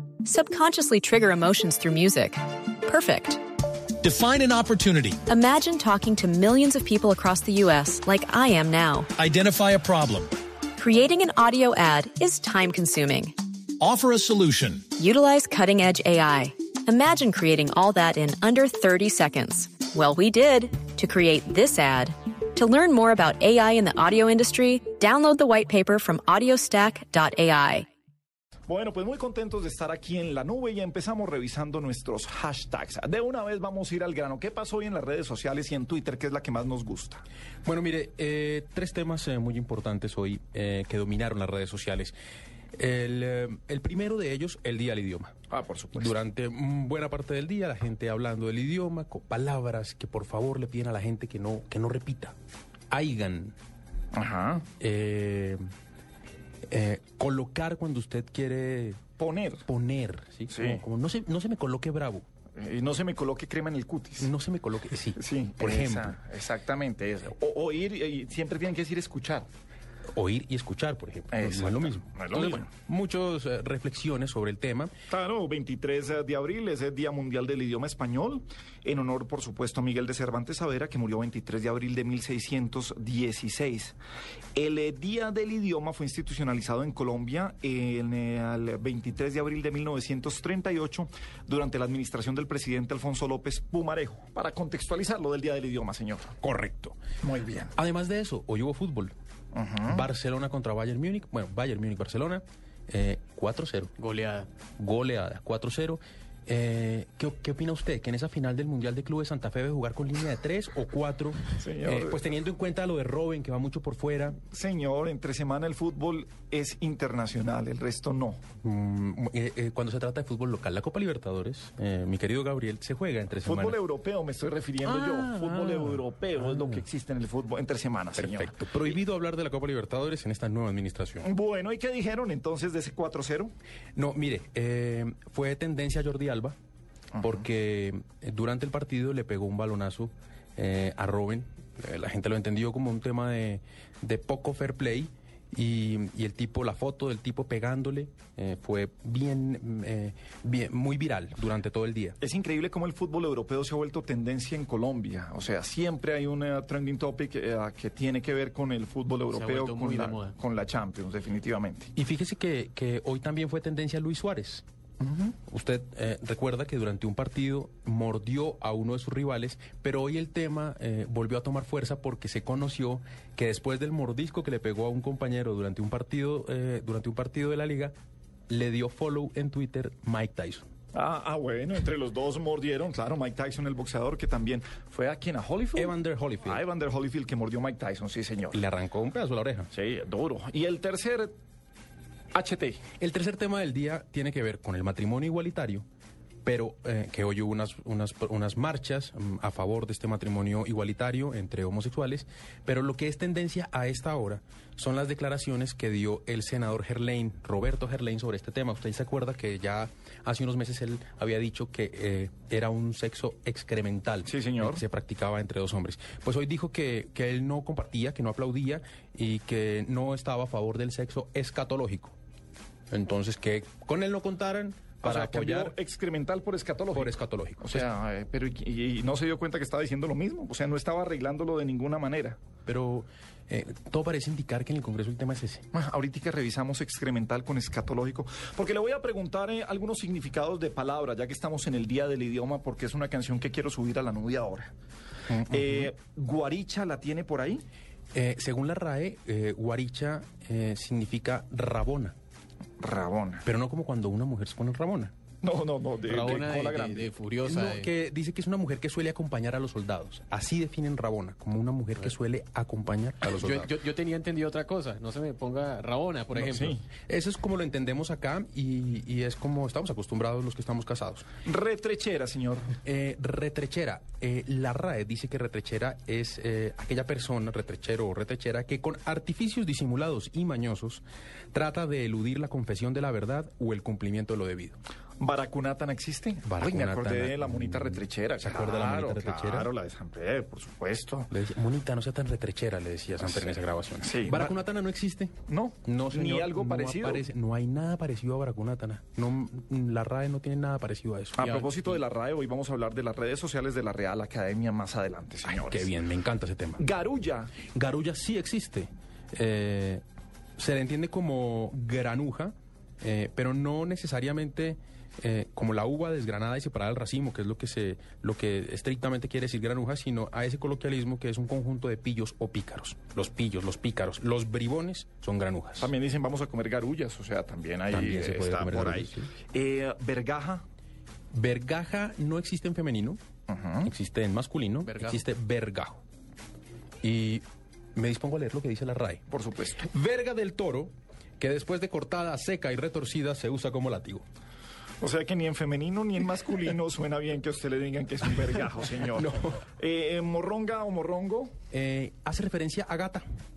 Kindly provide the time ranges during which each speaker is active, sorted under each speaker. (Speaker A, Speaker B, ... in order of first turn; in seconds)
Speaker A: 0.2-3.4, 5.3-9.1, 10.8-13.3, 15.0-27.9
Speaker B: 4.0-5.2, 9.2-10.3, 13.8-14.9
Speaker C: 28.7-37.2, 45.5-46.1, 54.1-54.6, 59.2-59.6, 60.5-60.8, 62.5-64.3, 65.1-69.5, 71.3-72.7, 75.1-84.0, 84.5-96.4, 97.2-97.7, 99.5-100.1, 111.6-112.2, 114.5-118.4, 123.4-128.6, 131.2-133.5, 137.1-137.4, 152.2-161.9, 180.9-188.6, 189.7-191.3, 192.3-192.8, 214.2-214.8, 225.0-232.4, 235.7-244.7, 245.4-247.6, 252.8-253.5, 255.4-257.1, 266.3-266.8, 271.4-272.7, 285.2-291.3, 293.2-294.6, 295.5-297.2, 301.4-305.9, 306.8-307.5, 325.8-330.6, 333.5-333.9, 339.3-339.9, 345.0-351.5
Speaker D: 37.6-42.1, 42.7-45.3, 45.9-52.3, 52.9-53.5, 54.8-55.6, 56.7-59.0, 59.6-62.2, 64.2-66.2, 70.1-74.9, 96.4-97.0, 97.7-99.1, 99.8-103.9, 104.8-114.4, 118.6-123.8, 124.8-126.8, 128.2-131.3, 133.9-136.6, 137.2-152.2, 161.9-164.6, 165.5-177.9, 178.5-180.6, 185.8-186.6, 188.5-189.7, 193.0-195.8, 196.4-222.2, 222.9-225.7, 226.9-227.9, 232.7-235.7, 245.3-245.9, 248.1-252.1, 253.4-255.1, 257.4-263.7, 267.1-271.2, 272.8-284.8, 286.4-289.7, 291.3-301.5, 305.5-306.9, 307.7-310.0, 310.6-325.9, 327.9-329.3, 331.3-333.2, 333.8-336.0, 337.0-337.4, 337.9-339.2, 339.8-344.2, 349.1-349.6, 351.7-353.2
Speaker E: 104.0-104.5, 159.3-160.3, 256.0-257.9, 263.2-266.8, 301.4-302.0, 334.8-335.2